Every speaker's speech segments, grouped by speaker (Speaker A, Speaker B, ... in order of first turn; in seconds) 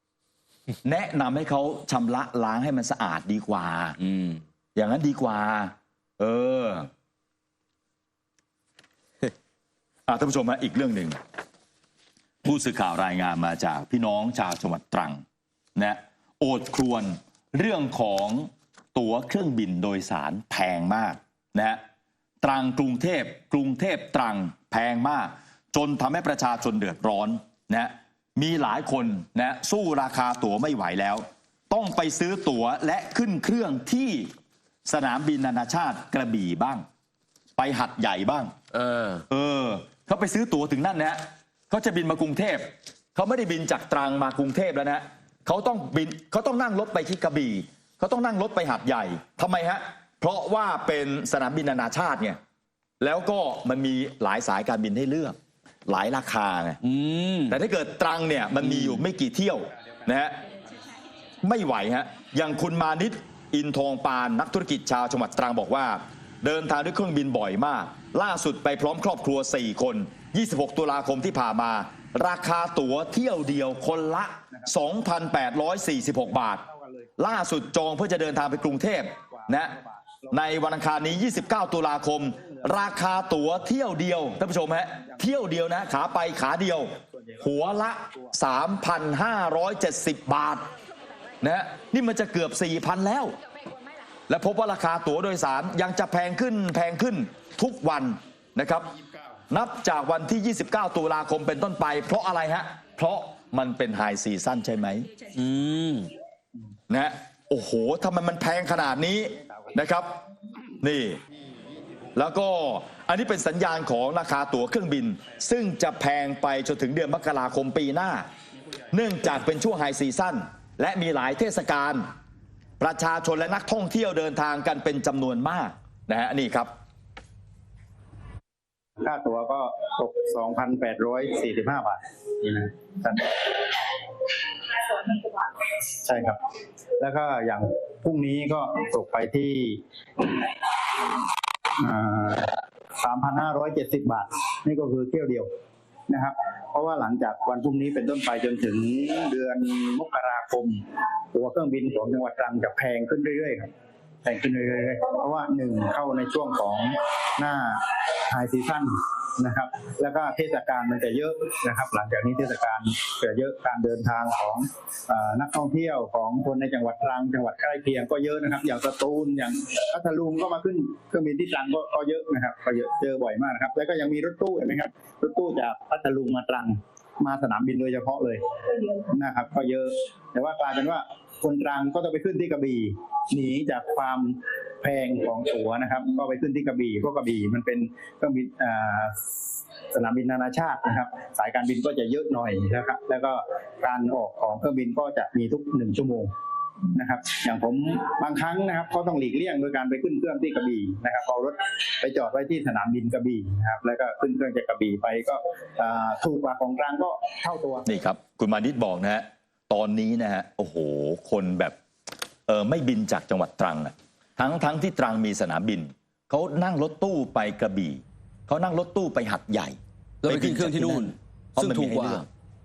Speaker A: 0.8-4.0, 4.7-6.9, 10.1-11.2, 12.4-15.2, 15.8-21.8, 22.4-34.3, 34.8-36.8, 37.6-38.5, 39.3-52.4, 53.0-56.8, 57.5-60.4, 61.4-76.6, 77.2-79.8, 80.3-90.7, 91.4-93.3, 94.3-98.9, 99.5-105.1, 106.9-110.1, 110.8-111.2, 112.2-118.3, 118.9-122.0, 122.8-126.7, 207.8-211.8, 212.5-222.3
Speaker B: 4.0-4.4, 38.7-39.2, 56.8-57.6, 58.6-59.0, 105.3-106.1, 220.2-222.2
Speaker C: 76.6-77.1, 79.3-80.6, 82.4-82.7, 87.1-87.5, 109.4-109.7, 129.0-136.4, 137.0-141.2, 141.8-145.5, 146.1-153.7, 154.2-189.2, 189.9-196.3, 196.9-207.8